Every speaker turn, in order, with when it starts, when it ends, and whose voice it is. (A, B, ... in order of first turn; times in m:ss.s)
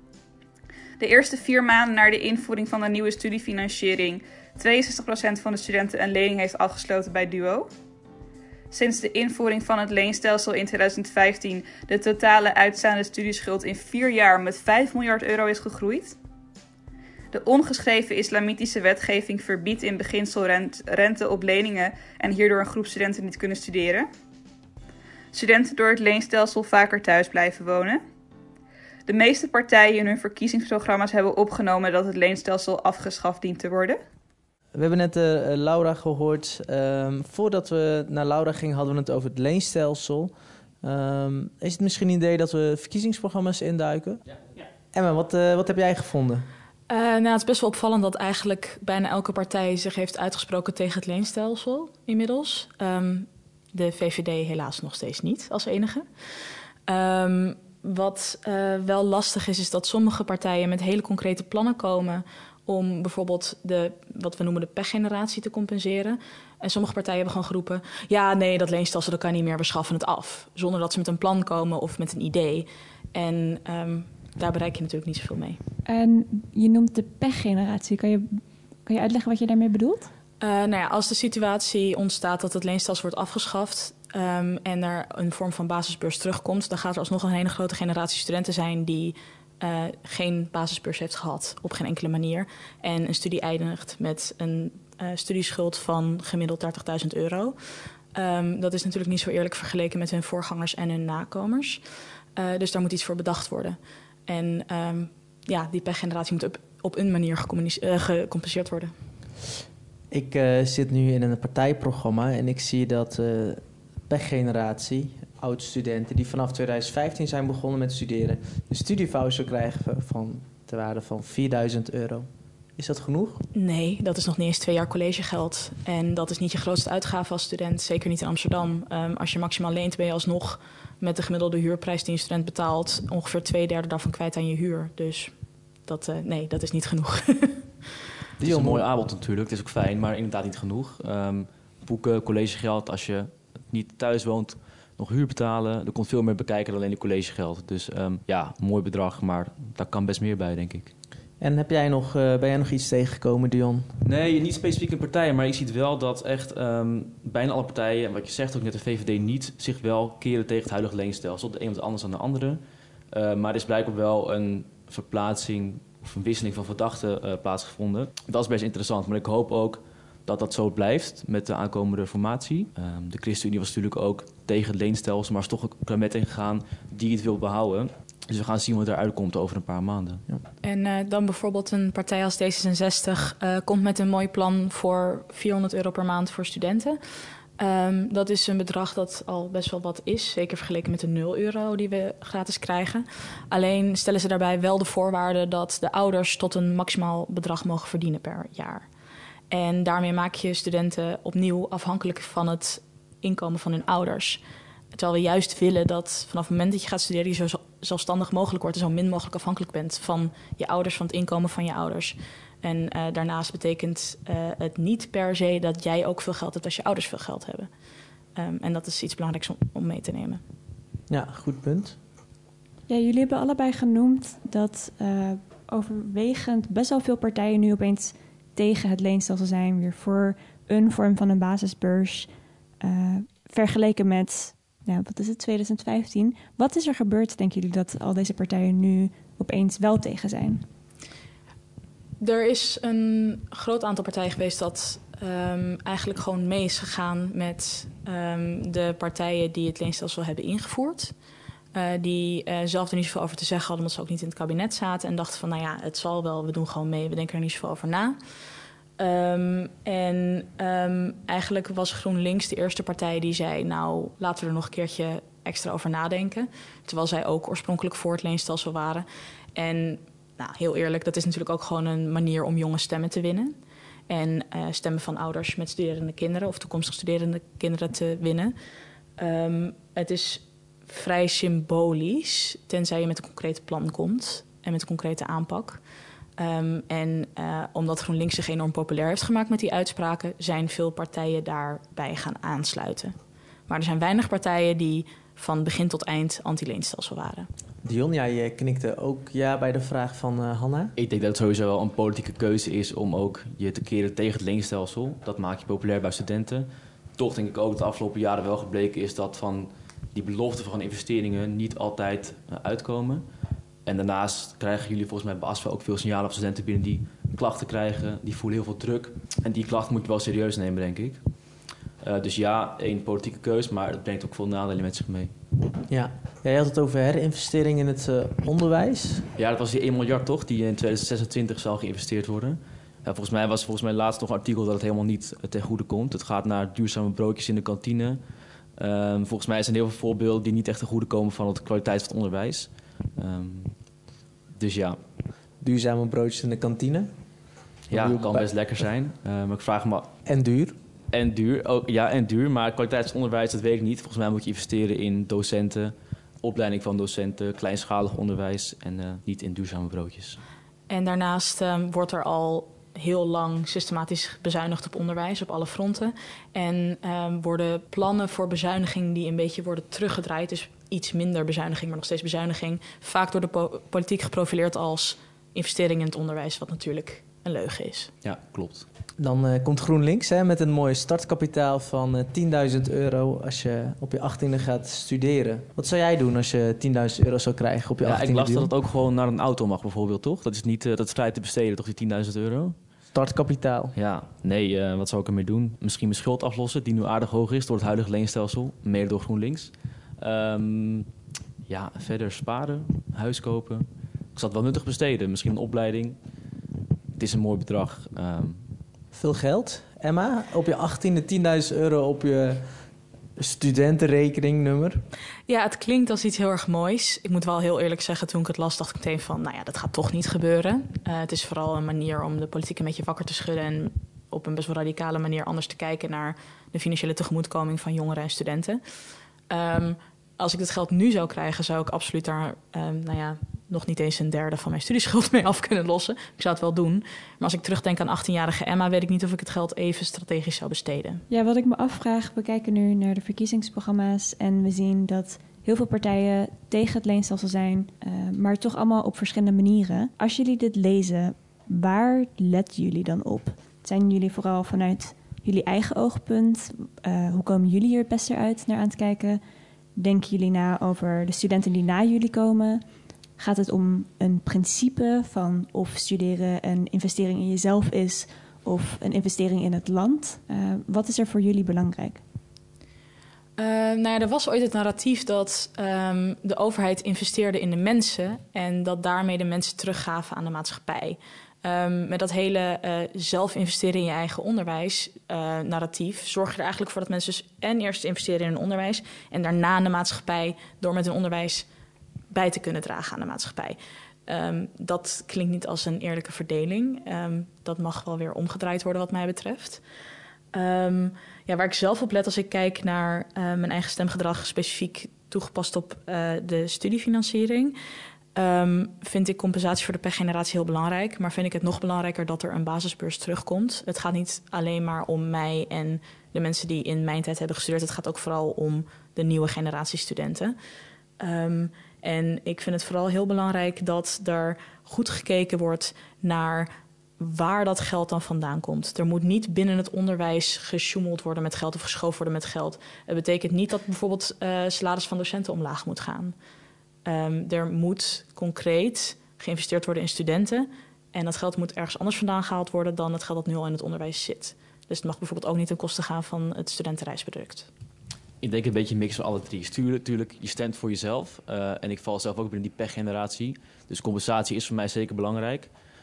0:01.0-0:07.7 A
0:08.7-0:16.2 A
0:17.3-0:24.1 A
0:25.3-0:28.0 A
0:29.0-0:34.0 A
0:34.7-0:40.3 B
0:40.8-0:44.2 B
0:44.9-0:46.4 B
0:46.9-1:15.6 C
1:15.8-1:20.1 D
1:20.4-1:41.8 C
1:42.4-1:48.9 C
1:50.1-2:03.4 B
2:03.5-2:17.7 C
2:18.4-2:30.9 E
2:18.4-2:18.8 B
2:31.4-2:33.9 B
2:34.0-2:42.6 E
2:43.1-3:00.2 E
3:00.6-3:18.9 C
3:19.5-3:24.4 C
3:24.9-3:37.7 C
3:38.4-3:40.4 C
3:41.1-3:42.0 B
3:42.9-3:52.3 D
3:52.8-4:00.6 D
4:02.2-4:11.1 C
4:11.7-4:18.2 C
4:19.0-4:33.6 C
4:34.1-4:38.5 C
4:39.2-4:45.8 C
4:46.4-4:53.1 C
4:53.7-4:57.5 C
4:57.8-5:00.9 B
5:01.0-5:13.2 E
5:13.8-5:21.2 E
5:22.0-5:25.3 E
5:25.9-5:29.3 B
5:29.4-5:38.2 E
5:38.8-5:43.8 E
5:44.5-5:45.0 E
5:45.6-5:47.1 B
5:47.9-5:48.5 B
5:47.9-5:50.1 E
5:50.2-5:50.8 B
5:51.1-6:00.4 E
6:00.9-6:18.1 C
6:18.2-6:18.8 E
6:19.2-6:28.7 B
6:28.0-6:32.8 E
6:33.1-6:33.9 B
6:33.9-6:41.1 E
6:41.6-6:46.2 E
6:47.2-6:48.6 E
6:49.1-6:52.6 B
6:53.4-6:55.0 B
6:55.5-7:08.8 C
7:09.5-7:21.2 C
7:21.3-7:39.4 D
7:40.0-7:42.8 D
7:43.4-7:52.2 D
7:53.6-8:11.7 C
8:12.3-8:19.8 C
8:20.5-8:27.7 C
8:28.4-8:40.6 C
8:41.2-8:56.3 C
8:57.0-9:07.7 C
9:08.4-9:15.7 E